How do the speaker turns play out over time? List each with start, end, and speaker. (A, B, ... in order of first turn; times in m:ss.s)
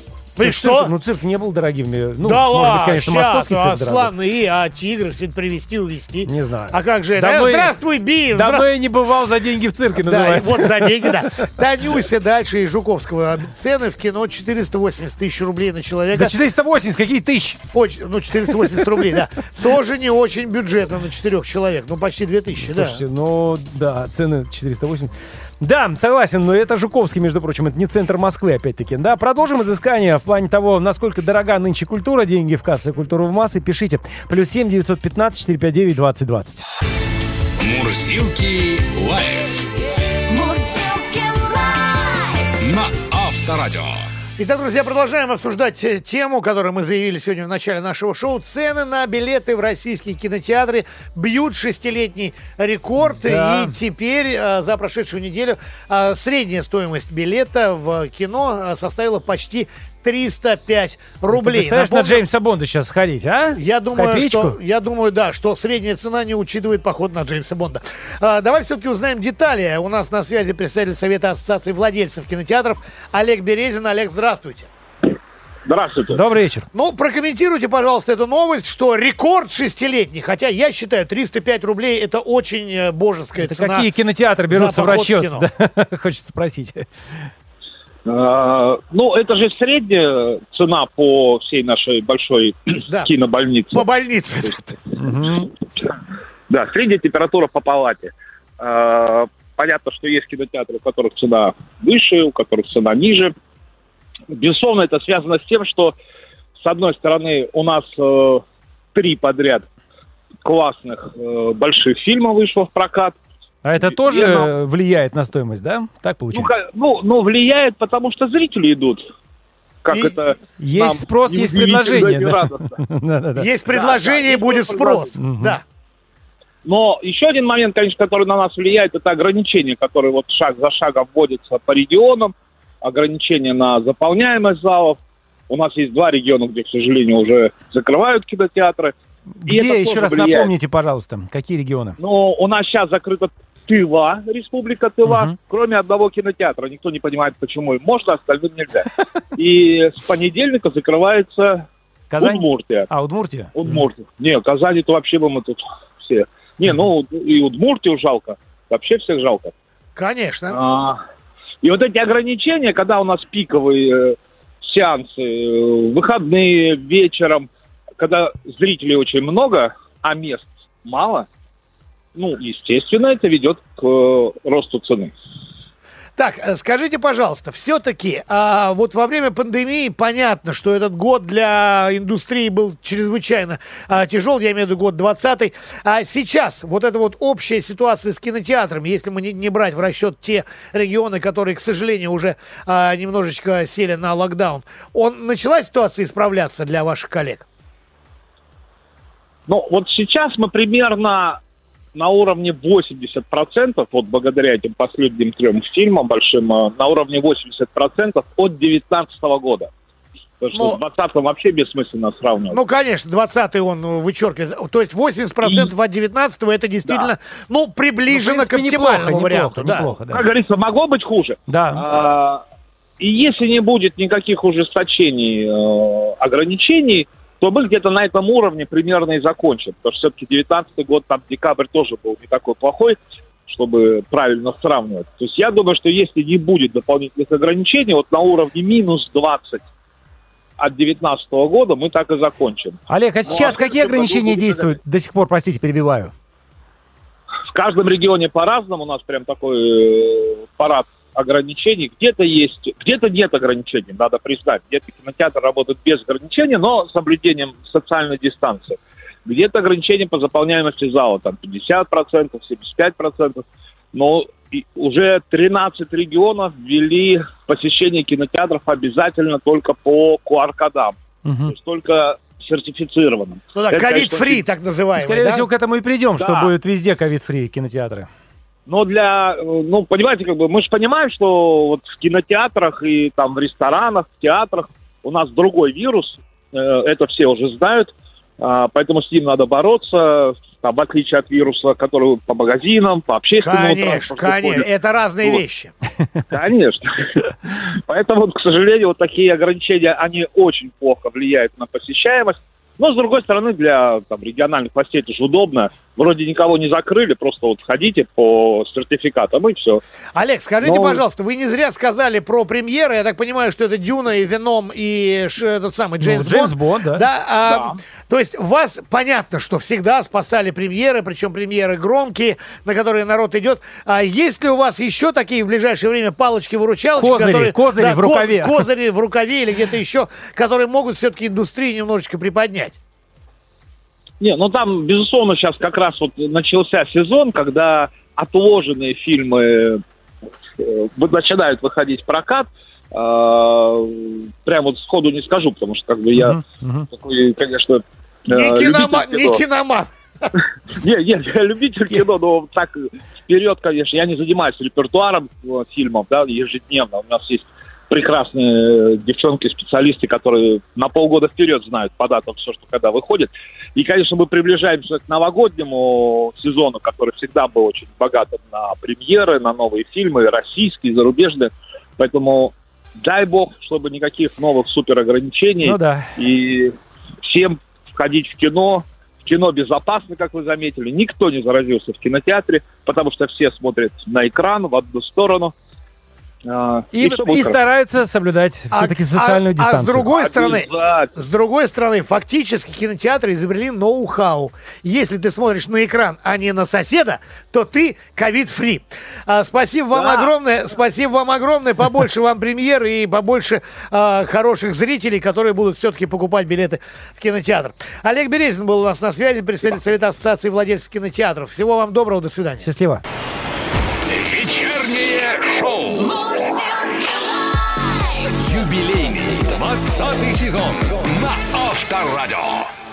0:00.4-0:00.9 A
0:00.4-0:04.1 B
0:02.2-0:08.7 A
0:06.3-0:07.7 B
0:08.3-0:11.3 B
0:10.0-0:16.4 A
0:16.1-0:17.6 B
0:17.7-0:23.0 A
0:18.8-0:19.0 B
0:22.6-0:36.6 B
0:37.6-0:39.7 C
0:40.3-0:42.5 D
0:42.6-0:44.0 C
0:44.4-1:02.2 A
0:53.0-0:53.8 B
1:01.3-1:04.6 B
1:03.6-1:14.7 A
1:15.7-1:16.2 E
1:16.1-1:16.7 B
1:16.7-1:23.9 A
1:23.4-1:27.3 B
1:24.5-1:25.5 A
1:28.1-1:33.9 E
1:33.7-1:34.8 A
1:35.0-1:35.5 B
1:36.5-1:43.3 E
1:44.3-1:45.9 E
1:46.6-1:49.7 E
1:50.4-1:53.2 E
1:53.6-1:56.6 B
1:53.8-1:54.5 E
1:56.3-1:59.1 E
1:59.8-2:02.8 E
2:00.6-2:03.5 B
2:03.4-2:05.6 A
2:03.7-2:05.2 E
2:05.2-2:05.6 B
2:06.6-2:18.9 E
2:19.4-2:22.0 B
2:19.5-2:20.5 E
2:22.0-2:31.7 E
2:25.0-2:25.4 B
2:32.1-2:33.6 B
2:32.2-2:32.9 E
2:33.6-2:39.5 E
2:40.0-2:40.6 A
2:40.5-2:41.0 E
2:41.6-2:51.3 E
2:52.2-2:55.1 E
2:56.2-3:17.4 A
3:19.5-3:21.4 E
3:21.9-3:29.7 E
3:30.4-3:32.6 E
3:30.6-3:30.8 A
3:32.5-3:39.9 A
3:35.4-3:35.7 E
3:36.9-3:37.1 E
3:38.1-3:40.2 B
3:40.1-3:42.4 E
3:41.5-3:41.8 B
3:43.0-3:59.6 E
4:00.6-4:04.8 E
4:02.9-4:06.1 B
4:07.5-4:31.0 E
4:31.2-4:31.5 B
4:31.5-4:34.4 E
4:33.5-4:35.5 A
4:35.0-4:38.1 B
4:36.2-4:36.5 E
4:38.7-4:54.7 E
4:53.4-4:55.7 A
4:56.3-5:09.8 E
5:10.2-5:32.8 A
5:10.6-5:11.0 E
5:16.0-5:17.1 B
5:17.5-5:17.8 E
5:27.0-5:28.7 B
5:34.2-5:39.8 E
5:40.6-5:46.4 E
5:46.2-5:46.9 B
5:46.9-5:49.4 E
5:48.3-5:50.2 A
5:50.7-6:25.5 E
6:15.6-6:16.1 B
6:26.5-6:27.6 E
6:26.9-6:30.1 B
6:28.7-6:52.7 A
6:30.1-6:31.1 E
6:39.9-6:40.3 E
6:52.6-6:53.0 B
6:54.1-6:56.1 C
6:55.9-6:58.3 D
6:58.4-7:02.7 C